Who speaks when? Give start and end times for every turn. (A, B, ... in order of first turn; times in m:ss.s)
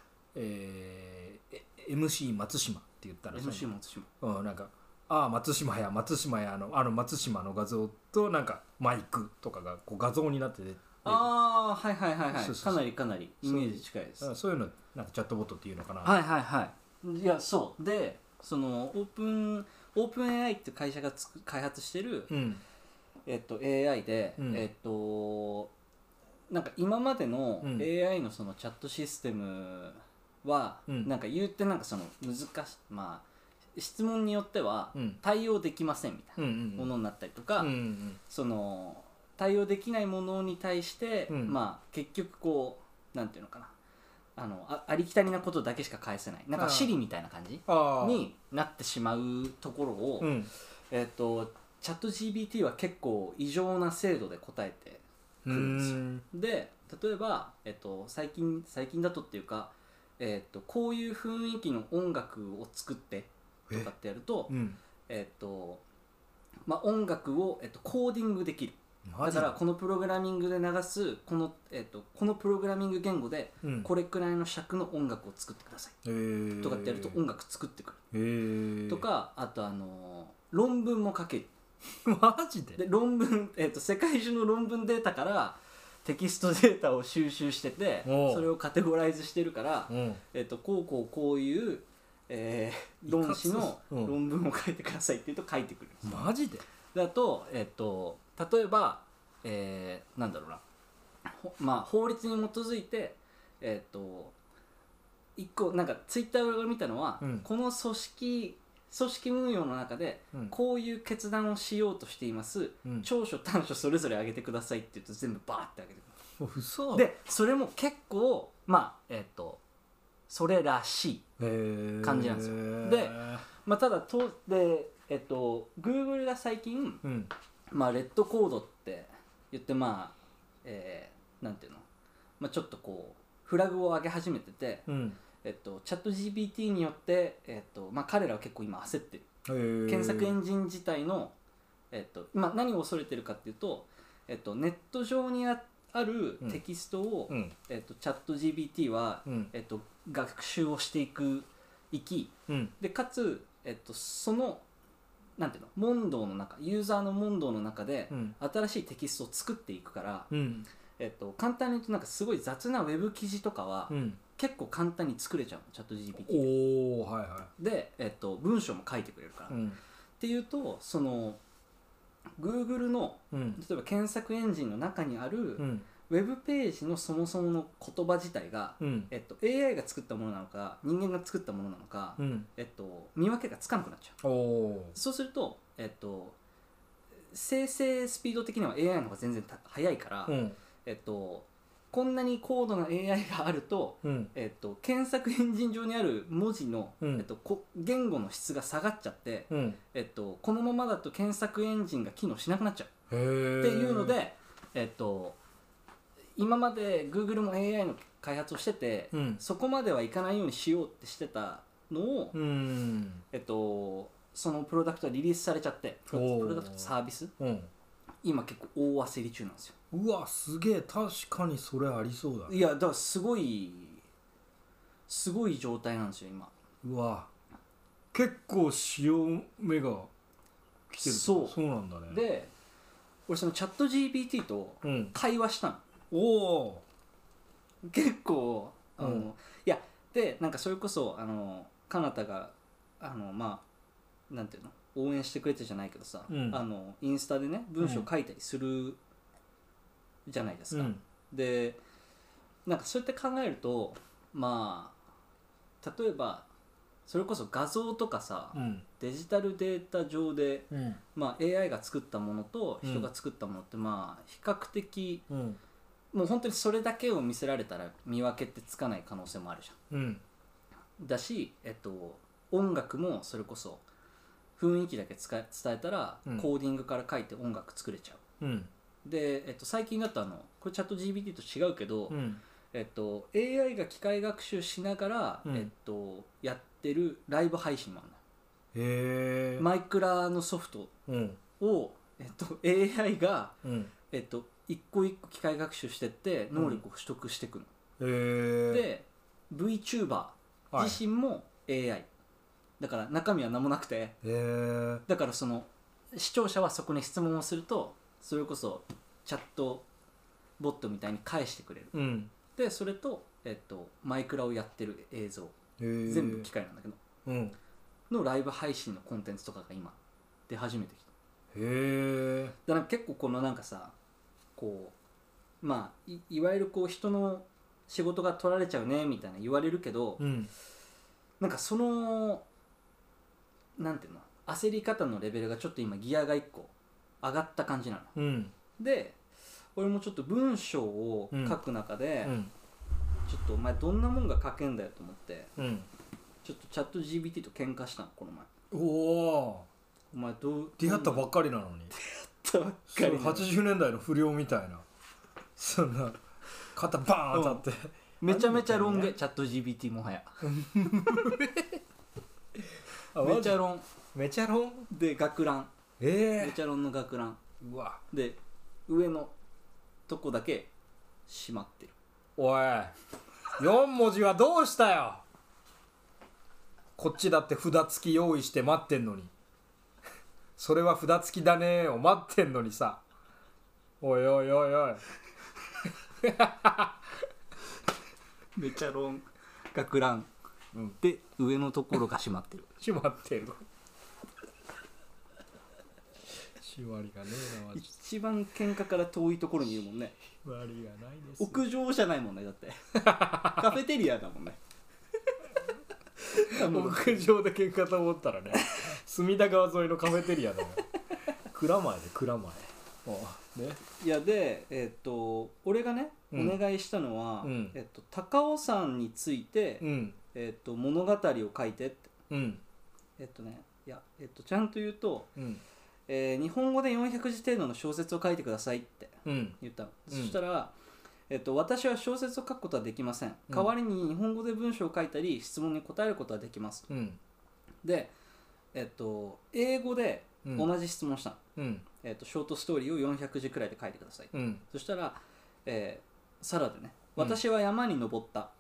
0:00.3-0:03.7 A
0:03.3-0:04.1 B
0:04.2-0:11.3 A
0:11.0-0:14.3 B
0:12.3-0:12.9 A
0:13.4-0:16.2 A
0:16.0-0:22.4 B
0:22.3-0:22.6 A
0:23.3-0:25.7 B
0:24.4-0:24.6 A
0:26.5-0:33.2 B
0:27.6-0:27.9 A
0:33.8-0:37.7 B
0:36.4-0:36.9 A
0:37.6-0:38.2 A
0:38.3-0:43.7 B
0:41.3-0:41.6 A
0:44.4-0:50.3 B
0:46.6-0:47.0 A
0:47.7-0:48.3 A
0:50.2-0:50.5 A
0:50.9-1:04.6 B
0:55.4-0:56.2 A
1:04.5-1:04.8 A
1:05.1-1:05.8 B
1:06.7-1:16.0 B
1:09.1-1:09.6 A
1:13.6-1:13.9 A
1:16.0-1:17.2 A
1:16.6-1:18.0 B
1:18.1-1:19.0 A
1:18.9-1:21.5 B
1:22.0-1:22.8 A
1:22.8-1:36.3 B
1:28.0-1:28.5 A
1:29.9-1:30.2 A
1:33.1-1:34.2 A
1:36.0-1:36.6 A
1:36.9-1:40.6 B
1:41.3-1:44.4 B
1:45.4-1:56.2 B
1:47.2-1:47.5 A
1:56.4-1:57.1 A
1:56.9-1:59.6 B
2:00.3-2:01.3 B
2:01.4-2:03.4 A
2:02.0-2:07.0 B
2:07.0-2:07.3 A
2:07.7-2:11.8 B
2:12.4-2:14.9 B
2:14.9-2:15.2 A
2:15.4-2:19.3 B
2:19.5-2:20.4 A
2:19.9-2:21.4 B
2:21.9-2:34.6 B
2:27.3-2:27.5 A
2:29.3-2:29.5 A
2:32.5-2:32.7 A
2:35.4-2:40.3 B
2:38.1-2:38.4 A
2:40.3-2:40.7 A
2:41.0-2:46.6 B
2:43.9-2:44.2 A
2:46.2-2:47.5 A
2:47.6-2:49.6 B
2:49.5-2:49.8 A
2:50.2-2:51.4 B
2:52.4-3:04.2 B
2:53.3-2:53.6 A
2:55.6-2:55.9 A
2:58.8-2:59.1 A
3:02.2-3:02.5 A
3:04.2-3:05.0 A
3:04.9-3:06.4 B
3:07.3-3:22.9 B
3:10.3-3:10.6 A
3:14.0-3:14.3 A
3:17.0-3:17.3 A
3:19.5-3:19.8 A
3:23.1-3:24.2 A
3:23.6-3:25.4 B
3:26.4-3:32.4 B
3:29.1-3:29.4 A
3:32.3-3:33.2 A
3:33.3-3:37.3 B
3:36.1-3:37.7 A
3:38.2-3:39.8 B
3:39.9-3:42.6 A
3:42.5-3:44.0 B
3:45.1-3:46.5 B
3:46.8-3:47.3 A
3:48.1-3:50.1 A
3:50.9-3:52.2 A
3:51.0-3:51.6 B
3:52.1-3:52.5 B
3:53.3-3:55.8 B
3:54.8-3:55.2 A
3:56.1-3:56.8 A
3:57.9-4:03.6 B
3:59.0-3:59.3 A
4:04.3-4:09.0 B
4:06.3-4:06.6 A
4:07.8-4:08.1 A
4:10.3-4:11.8 B
4:10.7-4:11.0 A
4:12.7-4:15.0 B
4:15.8-4:16.5 B
4:17.1-4:25.2 B
4:18.5-4:18.8 A
4:20.7-4:21.0 A
4:22.8-4:23.1 A
4:25.3-4:25.6 A
4:26.1-4:29.8 B
4:29.9-4:30.2 A
4:31.0-4:33.8 B
4:34.6-4:38.2 B
4:38.4-4:38.7 A
4:39.0-4:48.2 B
4:42.1-4:42.4 A
4:48.7-4:49.7 A
4:49.6-4:50.9 B
4:51.1-4:51.4 A
4:51.6-4:53.6 B
4:53.6-4:53.9 A
4:54.1-4:57.7 B
4:56.6-4:56.8 A
4:58.0-4:58.9 A
4:58.7-5:02.1 B
5:00.7-5:01.0 A
5:02.8-5:04.2 B
5:04.2-5:05.0 A
5:05.1-5:09.9 B
5:10.6-5:11.9 B
5:11.9-5:12.3 A
5:12.5-5:17.0 B
5:15.8-5:16.5 A
5:17.2-5:17.6 A
5:18.1-5:20.0 B
5:20.5-5:21.1 B
5:21.5-5:22.5 A
5:22.6-5:23.9 B
5:24.6-5:25.0 B
5:25.6-5:30.3 B
5:30.2-5:30.5 A
5:31.4-5:32.5 B
5:33.8-5:38.1 B
5:38.2-5:38.5 A
5:38.8-5:39.2 B
5:39.8-5:42.4 B
5:41.3-5:41.6 A
5:42.2-5:42.5 A
5:43.3-5:45.5 B
5:45.6-5:45.9 A
5:46.4-5:48.5 B
5:48.7-5:49.7 A
5:50.1-5:51.3 B
5:50.8-5:51.9 A
5:51.9-5:53.5 B
5:52.9-5:54.8 A
5:55.6-5:56.2 A
5:56.7-5:59.2 A
5:57.3-5:57.6 B
5:58.2-6:01.4 B
6:00.4-6:01.8 A
6:03.1-6:03.6 A
6:03.2-6:03.8 B
6:04.1-6:04.9 A
6:04.9-6:05.7 B
6:06.0-6:06.6 A
6:06.4-6:07.4 B
6:07.6-6:08.0 A
6:08.1-6:09.3 B
6:10.1-6:10.7 B
6:11.3-6:11.9 B
6:12.4-6:12.9 A
6:13.6-6:15.2 A
6:17.0-6:19.3 A
6:20.6-6:23.0 A
6:24.0-6:25.0 A
6:26.2-6:27.0 A
6:28.6-6:30.3 B
6:31.0-6:32.7 B
6:32.8-6:33.6 A
6:36.6-6:37.9 A
6:37.7-6:40.2 B
6:40.4-6:41.6 A
6:41.4-6:42.8 B
6:43.0-6:43.7 A
6:43.3-6:44.6 B
6:46.2-6:47.2 B
6:46.5-6:50.9 A
6:51.5-6:53.8 A
6:54.0-7:02.1 B
6:56.3-6:56.6 A
6:57.4-6:57.8 A
6:59.8-7:00.2 A
7:02.3-7:02.6 A
7:03.2-7:05.3 B
7:05.4-7:05.6 A
7:06.1-7:10.7 B
7:09.2-7:09.6 A
7:10.1-7:10.4 A
7:11.3-7:16.9 B
7:16.9-7:17.2 A
7:17.8-7:18.1 B
7:18.7-7:21.4 B
7:20.4-7:20.7 A
7:21.6-7:21.9 A
7:22.0-7:28.5 B
7:24.3-7:24.6 A